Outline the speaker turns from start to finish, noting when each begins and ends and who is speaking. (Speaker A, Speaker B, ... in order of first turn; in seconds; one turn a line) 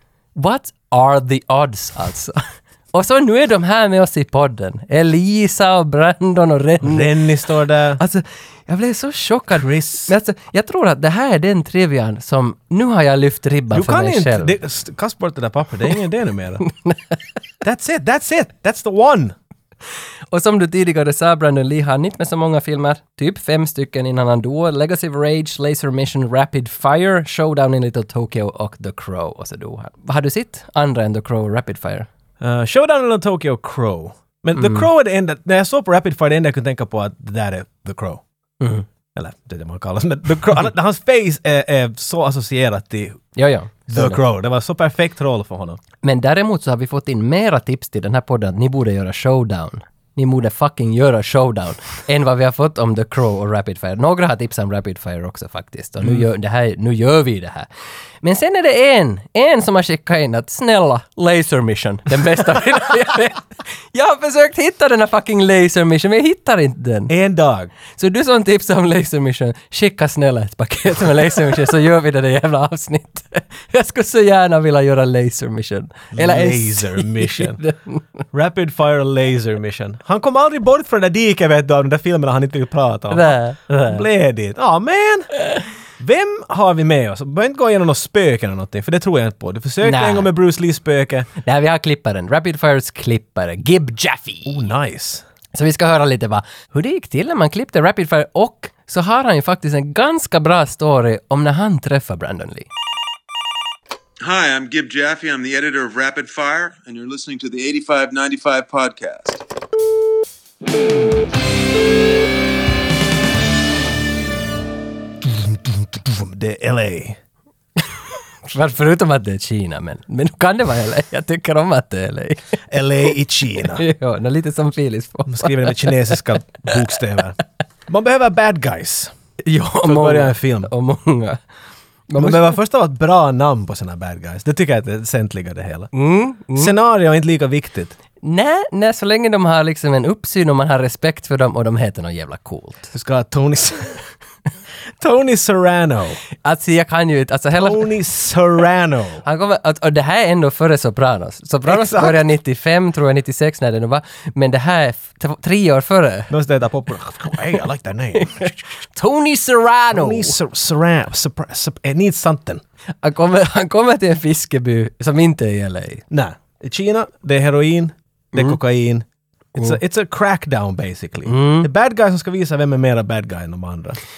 Speaker A: 0.4-7.1
Speaker B: 6.8-8.0
Speaker A: 8.0-14.5
Speaker B: 9.5-10.1
Speaker B: 13.7-16.6
Speaker A: 16.6-17.2
Speaker B: 17.6-19.4
Speaker A: 20.3-32.1
Speaker B: 32.4-38.2
Speaker A: 34.6-34.9
Speaker A: 38.6-38.9
Speaker B: 39.1-43.2
Speaker A: 43.4-44.2
Speaker B: 43.9-45.8
Speaker A: 46.0-57.7
Speaker A: 58.2-67.1
Speaker B: 67.1-67.7
Speaker A: 67.9-78.0
Speaker B: 76.1-77.6
Speaker B: 78.3-83.3
Speaker A: 83.1-84.0
Speaker B: 83.9-85.3
Speaker B: 86.0-91.3
Speaker A: 89.8-90.3
Speaker A: 91.4-94.6
Speaker B: 94.5-95.2
Speaker A: 95.5-102.7
Speaker C: 104.2-109.4
Speaker B: 115.2-117.2
Speaker A: 118.5-122.4
Speaker B: 122.7-123.8
Speaker A: 123.8-126.2
Speaker B: 125.3-129.1
Speaker A: 129.4-131.4
Speaker B: 129.8-130.7
Speaker A: 132.1-132.5
Speaker B: 132.2-135.9
Speaker A: 135.9-136.7
Speaker B: 136.6-137.9
Speaker A: 138.2-142.9
Speaker B: 142.9-144.0
Speaker B: 145.0-146.2
Speaker A: 146.4-147.8
Speaker B: 147.5-149.2
Speaker A: 149.2-156.3
Speaker B: 151.7-152.2
Speaker B: 156.3-158.6
Speaker A: 158.2-160.4
Speaker B: 159.9-162.6
Speaker A: 163.0-166.1
Speaker B: 166.1-174.0
Speaker A: 171.3-171.7